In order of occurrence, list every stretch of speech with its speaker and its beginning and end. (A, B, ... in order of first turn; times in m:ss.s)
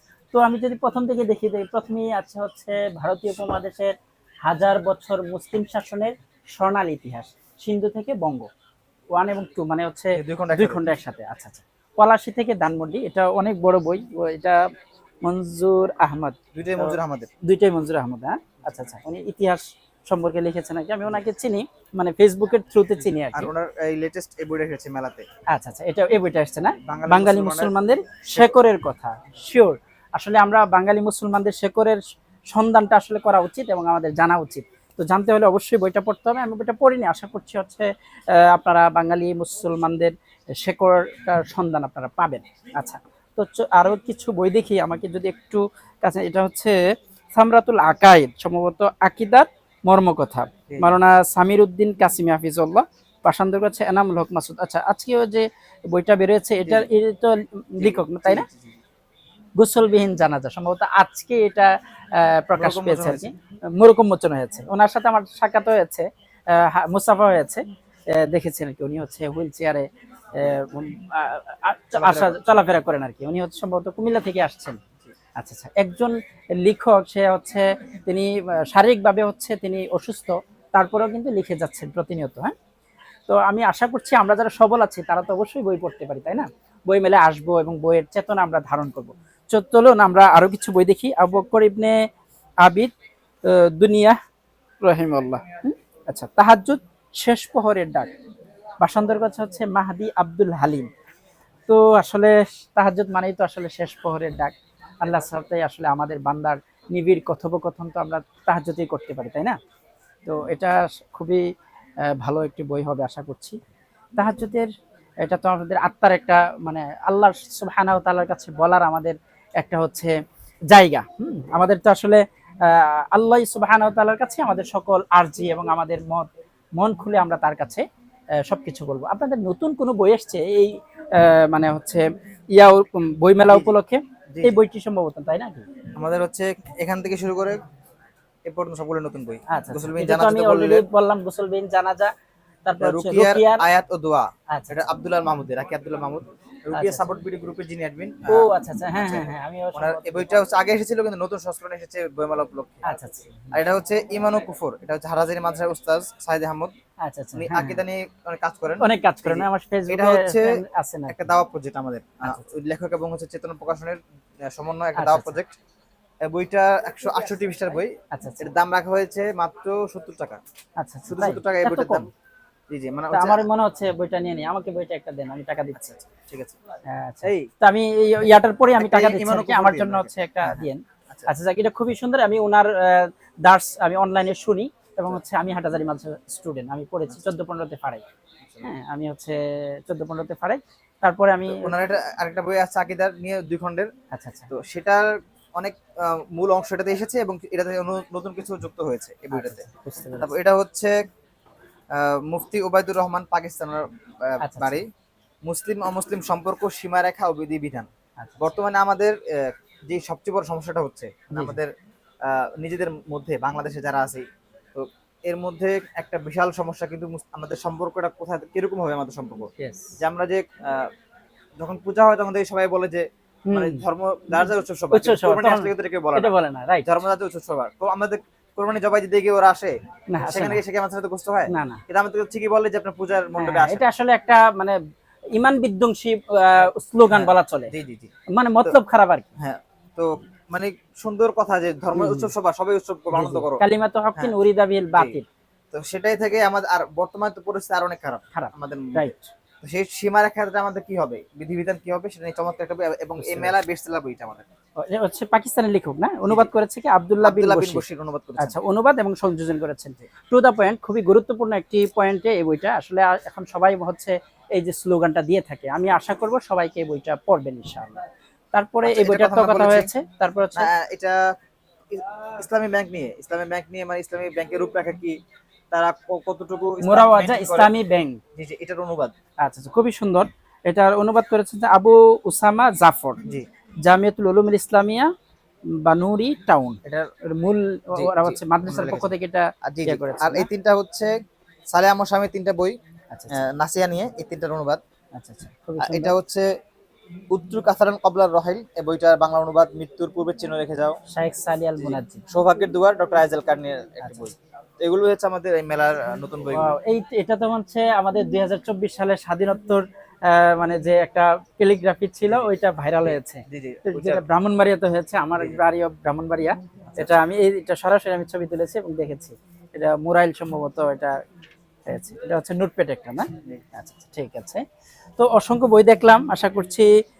0:00.3-0:03.9 A
0:04.5-0:08.5 A
0:09.1-0:14.7 A
0:10.2-0:10.8 B
0:15.2-0:23.5 A
0:16.6-0:17.3 B
0:23.3-0:25.3 B
0:25.5-0:32.0 A
0:26.8-0:27.7 B
0:32.5-0:46.8 A
0:47.4-0:58.5 A
0:50.7-0:51.0 B
0:57.8-0:58.8 B
0:59.6-1:14.8 A
1:02.6-1:03.3 B
1:12.0-1:12.4 B
1:15.4-1:22.5 A
1:23.3-1:32.0 A
1:32.6-1:32.9 A
1:33.4-1:34.2 A
1:34.8-1:38.1 A
1:38.8-1:40.9 A
1:41.7-1:49.6 A
1:50.3-1:51.4 A
1:52.1-1:53.6 A
1:54.2-1:54.7 A
1:55.2-2:00.2 A
2:00.7-2:07.8 A
2:08.4-2:15.6 A
2:13.5-2:13.7 B
2:16.0-2:17.6 B
2:18.5-2:20.8 B
2:19.5-2:22.1 A
2:22.7-2:23.6 A
2:22.8-2:32.9 B
2:24.5-2:24.8 A
2:26.7-2:27.1 A
2:28.3-2:30.4 A
2:32.8-2:33.6 A
2:33.5-2:36.7 B
2:37.0-2:37.8 A
2:37.4-2:44.0 B
2:38.8-2:41.2 A
2:44.5-2:45.6 B
2:45.0-2:45.4 A
2:46.2-2:50.4 B
2:48.1-2:48.5 A
2:50.8-2:52.0 A
2:51.1-2:52.1 B
2:52.7-2:53.5 B
2:53.1-2:55.8 A
2:55.8-2:56.6 B
2:56.9-3:08.0 A
2:57.2-2:57.5 B
2:58.8-3:01.3 B
3:08.4-3:08.7 B
3:08.6-3:11.7 A
3:11.5-3:13.9 B
3:14.1-3:14.5 A
3:14.5-3:21.0 B
3:19.3-3:20.3 A
3:21.9-3:24.8 B
3:24.4-3:24.8 A
3:25.4-3:31.7 B
3:28.2-3:28.5 A
3:31.3-3:31.6 A
3:32.2-3:40.9 B
3:39.6-3:40.0 A
3:41.6-3:53.8 B
3:43.5-3:43.8 A
3:44.4-3:47.0 A
3:50.1-3:50.6 A
3:51.5-3:51.8 A
3:53.4-3:54.8 A
3:55.4-3:57.7 A
3:57.1-3:58.1 B
3:58.3-3:59.3 A
3:59.4-4:03.6 B
4:01.9-4:02.3 A
4:03.1-4:05.3 A
4:05.7-4:14.5 B
4:08.3-4:09.3 A
4:13.2-4:13.6 A
4:14.8-4:17.8 A
4:17.2-4:18.6 B
4:18.4-4:28.0 A
4:28.5-4:30.7 A
4:28.8-4:29.9 B
4:30.6-4:31.2 B
4:31.9-4:35.2 B
4:35.7-4:37.7 B
4:36.8-4:38.2 A
4:38.4-4:39.1 B
4:39.4-4:43.2 A
4:43.8-4:45.1 A
4:45.8-4:50.5 A
4:48.0-4:49.1 B
4:49.7-4:51.1 B
4:51.7-4:52.8 B
4:53.1-4:53.5 A
4:53.3-4:54.8 B
4:55.1-4:56.1 A
4:55.8-4:56.5 B
4:57.3-5:01.0 B
5:01.1-5:02.2 A
5:01.8-5:06.7 B
5:04.0-5:04.3 A
5:06.5-5:21.2 A
5:13.0-5:14.2 B
5:16.9-5:17.2 B
5:21.9-5:24.6 A
5:25.2-5:26.9 A